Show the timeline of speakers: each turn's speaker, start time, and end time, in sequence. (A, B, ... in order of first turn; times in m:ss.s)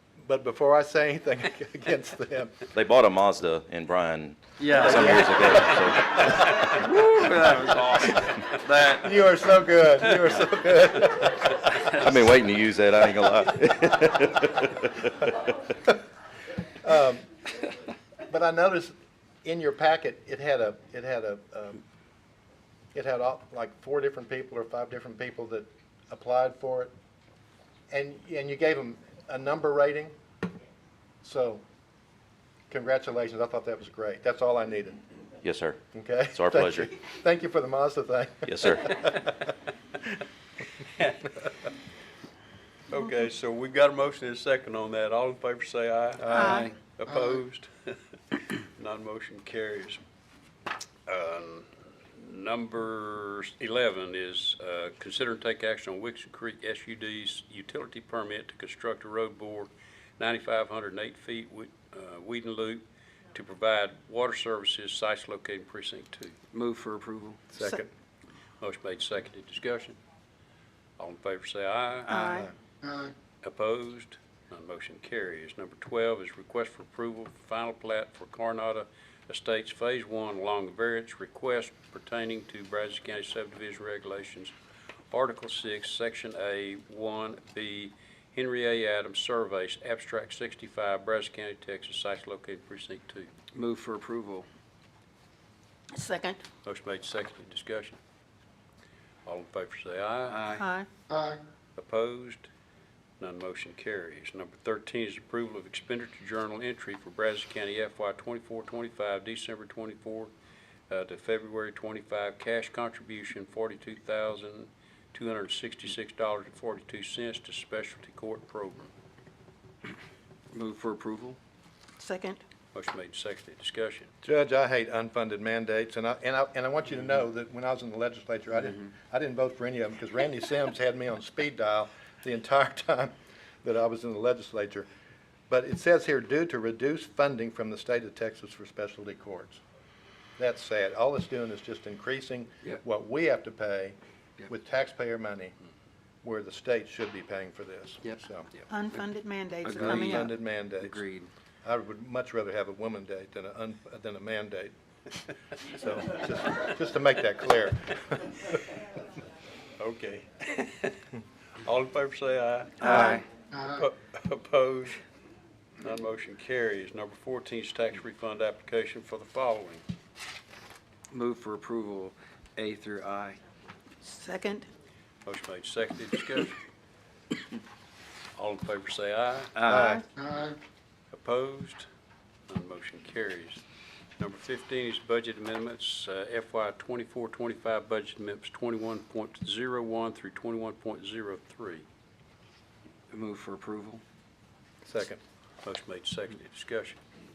0:00.2-0:02.7 A
0:02.7-0:06.6 B
0:04.6-0:05.3 C
0:04.8-0:05.9 A
0:06.5-0:09.2 C
0:08.9-0:11.6 A
0:12.0-0:14.9 B
0:16.8-0:17.2 A
0:18.3-0:21.8 A
0:22.9-0:26.9 A
0:27.9-0:30.1 A
0:31.2-0:31.6 A
0:32.7-0:35.0 A
0:35.4-0:35.8 B
0:35.9-0:39.4 A
0:36.3-0:36.9 B
0:38.5-0:38.9 B
0:41.0-0:41.3 D
0:42.9-0:48.0 D
0:46.2-0:46.6 A
0:46.3-0:46.7 E
0:46.4-0:46.7 C
0:48.6-0:50.0 D
0:51.1-1:06.4 D
1:06.5-1:07.5 C
1:07.5-1:07.9 A
1:08.6-1:10.0 D
1:11.0-1:12.5 D
1:12.1-1:12.5 E
1:13.4-1:24.5 D
1:25.1-1:33.3 D
1:33.5-1:34.5 C
1:36.0-1:36.4 E
1:36.6-1:38.0 D
1:39.3-1:40.4 D
1:40.3-1:40.7 C
1:40.5-1:40.9 E
1:41.8-1:42.5 D
1:43.2-1:50.3 D
1:50.9-1:58.9 D
2:00.5-2:01.4 C
2:02.0-2:02.4 E
2:02.7-2:04.1 D
2:04.2-2:14.9 A
2:15.5-2:19.6 A
2:20.4-2:25.5 A
2:26.2-2:28.5 A
2:28.0-2:28.7 C
2:28.7-2:30.3 E
2:29.6-2:31.3 C
2:29.8-2:31.0 A
2:31.6-2:34.7 A
2:35.7-2:38.6 A
2:39.8-2:41.0 D
2:41.6-2:45.0 D
2:42.8-2:43.2 C
2:42.8-2:43.2 E
2:45.8-2:49.8 D
2:51.1-2:53.4 C
2:54.0-2:54.7 E
2:55.2-2:56.6 D
2:58.4-2:59.6 D
2:59.6-2:59.9 C
2:59.7-3:00.0 A
2:59.8-3:00.0 E
3:01.1-3:01.9 D
3:02.5-3:03.6 D
3:04.2-3:11.8 D
3:13.1-3:14.0 C
3:14.8-3:15.2 A
3:15.6-3:17.0 D